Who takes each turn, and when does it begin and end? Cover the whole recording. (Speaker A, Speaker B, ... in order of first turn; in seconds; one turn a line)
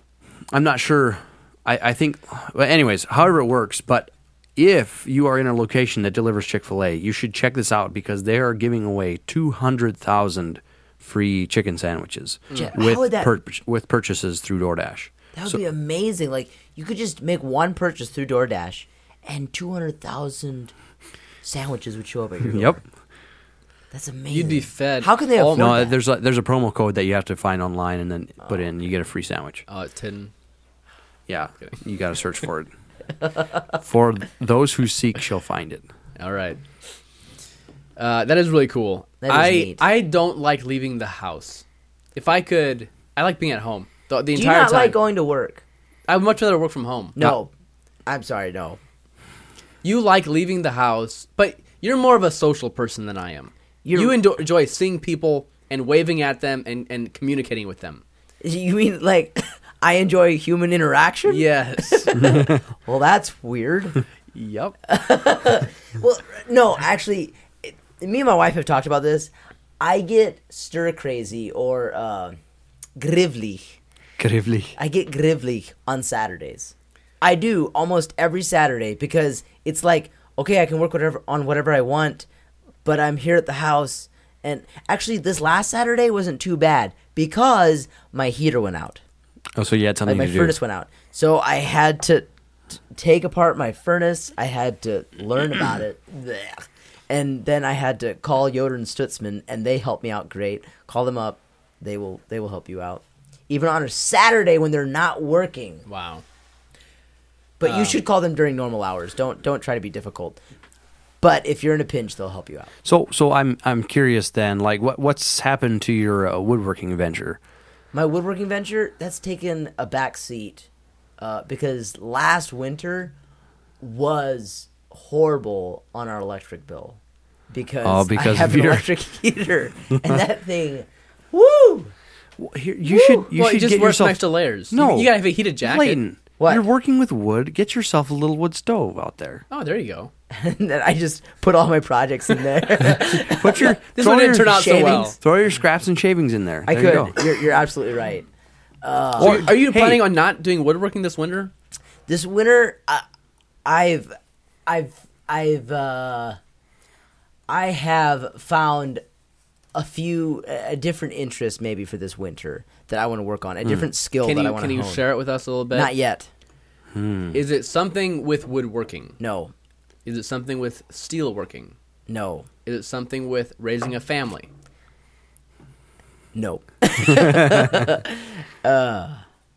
Speaker A: 0.5-15.6
Speaker B: 12.5-13.3
Speaker B: 15.3-20.7
Speaker B: 21.4-22.8
Speaker A: 22.4-22.8
Speaker B: 23.9-25.9
Speaker C: 24.3-25.8
Speaker A: 25.5-29.6
Speaker C: 29.7-30.3
Speaker A: 31.3-32.7
Speaker A: 33.7-35.8
Speaker C: 36.2-36.6
Speaker C: 38.0-45.0
Speaker B: 39.2-39.8
Speaker B: 44.3-45.6
Speaker C: 46.1-47.1
Speaker B: 47.1-47.5
Speaker B: 48.0-48.8
Speaker C: 49.8-58.0
Speaker B: 53.8-54.2
Speaker B: 58.4-64.0
Speaker C: 61.3-62.3
Speaker A: 62.2-62.6
Speaker C: 64.3-64.7
Speaker B: 64.9-72.3
Speaker B: 73.0-73.6
Speaker A: 74.2-74.7
Speaker B: 74.8-82.2
Speaker B: 82.8-89.0
Speaker A: 89.5-90.6
Speaker B: 90.0-105.8
Speaker C: 105.8-106.2
Speaker B: 107.6-110.4
Speaker C: 107.6-108.0
Speaker B: 111.2-112.7
Speaker A: 112.8-117.4
Speaker B: 117.9-120.7
Speaker B: 121.2-123.1
Speaker B: 123.8-127.0
Speaker B: 127.5-131.9
Speaker A: 127.8-128.8
Speaker A: 132.4-139.4
Speaker B: 132.9-133.3
Speaker C: 133.3-136.0
Speaker B: 136.4-136.6
Speaker C: 139.5-140.1
Speaker B: 140.3-143.8
Speaker A: 142.9-147.2
Speaker C: 143.6-145.2
Speaker B: 144.4-145.2
Speaker B: 146.7-148.3
Speaker B: 148.8-149.5
Speaker A: 149.2-150.0
Speaker C: 149.2-151.5
Speaker B: 152.1-153.0
Speaker B: 153.6-154.1
Speaker B: 154.7-156.4
Speaker B: 157.5-159.0
Speaker B: 159.7-165.0
Speaker C: 164.2-165.9
Speaker B: 165.7-166.3
Speaker A: 166.9-167.4
Speaker C: 167.3-169.2
Speaker B: 169.2-169.5
Speaker C: 170.0-171.7
Speaker B: 172.1-172.5
Speaker C: 172.6-174.5
Speaker B: 176.3-179.2
Speaker A: 177.1-177.8